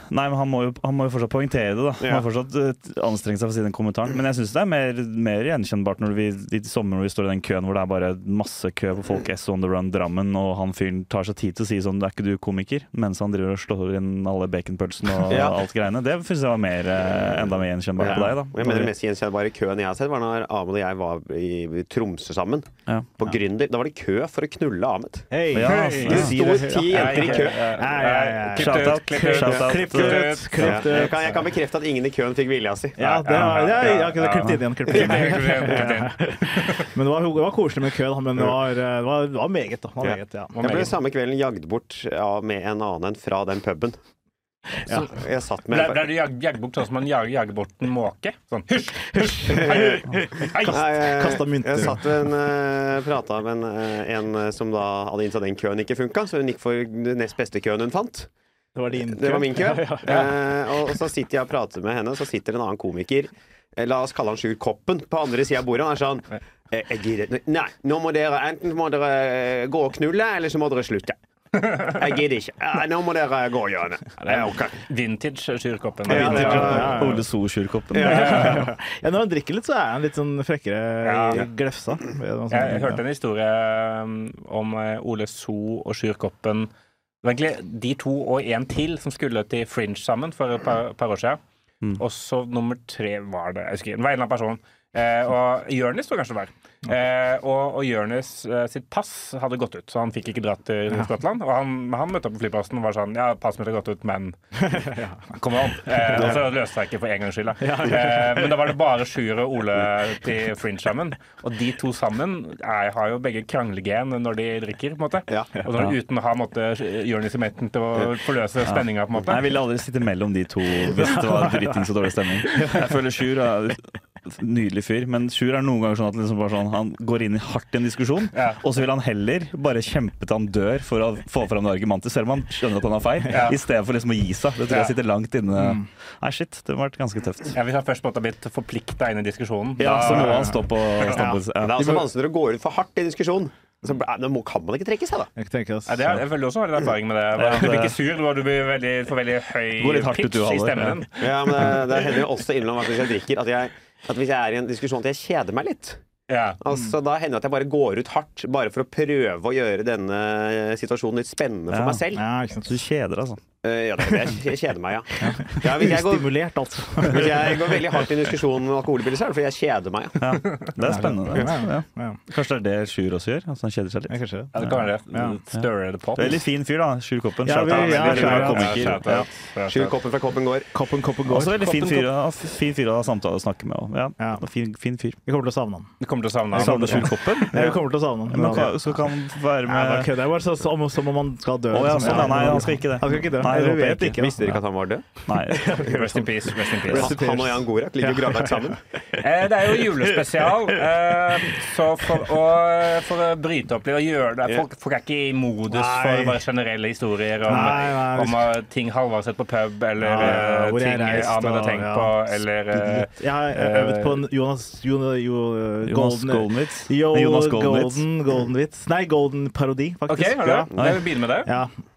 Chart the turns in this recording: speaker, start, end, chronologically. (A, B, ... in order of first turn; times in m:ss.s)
0:00.1-0:18.9 A
0:02.0-0:02.2 B
0:15.3-0:15.6 B
0:18.0-0:25.3 B
0:18.0-0:18.9 C
0:25.3-0:31.4 C
0:25.5-0:26.6 A
0:25.7-0:31.3 D
0:26.0-0:27.6 B
0:28.5-0:30.4 A
0:30.6-0:34.2 B
0:33.0-0:40.9 C
0:33.3-0:33.7 A
0:34.3-0:34.6 A
0:34.8-0:36.8 D
0:34.9-0:36.0 B
0:40.0-0:44.0 B
0:40.5-0:40.9 D
0:44.9-0:46.1 B
0:45.7-0:51.0 D
0:49.1-0:52.1 C
0:49.6-0:50.0 B
0:50.6-0:58.3 B
0:58.7-1:00.4 C
0:59.1-1:14.8 B
1:14.2-1:17.0 D
1:16.1-1:17.0 B
1:16.1-1:17.2 C
1:16.2-1:18.6 A
1:17.9-1:18.4 B
1:18.0-1:18.7 D
1:18.0-1:23.0 C
1:21.0-1:21.4 D
1:22.5-1:26.7 D
1:27.2-1:31.4 D
1:32.0-1:44.4 D
1:44.6-1:45.2 C
1:45.3-1:59.5 D
1:46.1-1:46.4 B
1:47.6-1:48.4 C
1:58.6-2:17.6 A
2:08.3-2:08.6 D
2:13.3-2:13.6 D
2:14.7-2:14.9 D
2:15.5-2:15.9 C
2:17.5-2:21.1 D
2:19.8-2:22.1 A
2:20.3-2:21.4 C
2:21.6-2:25.3 B
2:25.4-2:26.2 C
2:25.9-2:31.7 D
2:27.4-2:27.9 A
2:29.8-2:31.0 A
2:31.2-2:36.0 B
2:36.3-2:36.6 D
2:36.6-2:42.2 B
2:41.7-2:42.0 A
2:42.1-2:42.8 C
2:42.6-2:43.4 A
2:43.6-2:46.3 B
2:45.2-2:47.7 C
2:47.0-2:50.7 B
2:50.2-2:54.9 A
2:50.8-2:52.2 C
2:54.1-2:54.5 C
2:54.5-2:56.4 D
2:55.1-2:55.4 C
2:55.5-2:59.3 A
2:57.4-2:59.0 C
2:57.6-2:59.9 D
2:59.7-3:00.7 B
3:00.7-3:02.0 C
3:01.3-3:05.2 A
3:05.2-3:05.9 C
3:06.0-3:07.4 D
3:06.5-3:08.9 C
3:06.5-3:10.1 A
3:09.6-3:14.4 C
3:11.7-3:14.6 A
3:14.2-3:15.1 B
3:15.2-3:15.8 A
3:15.5-3:16.2 C
3:15.6-3:17.2 D
3:15.7-3:16.2 B
3:16.8-3:18.6 C
3:16.8-3:18.8 B
3:19.2-3:34.2 D
3:25.7-3:26.4 C
3:27.4-3:28.5 C
3:30.0-3:40.7 C
3:35.8-3:38.0 A
3:40.1-3:41.5 D
3:40.7-3:41.0 A
3:41.4-3:41.7 C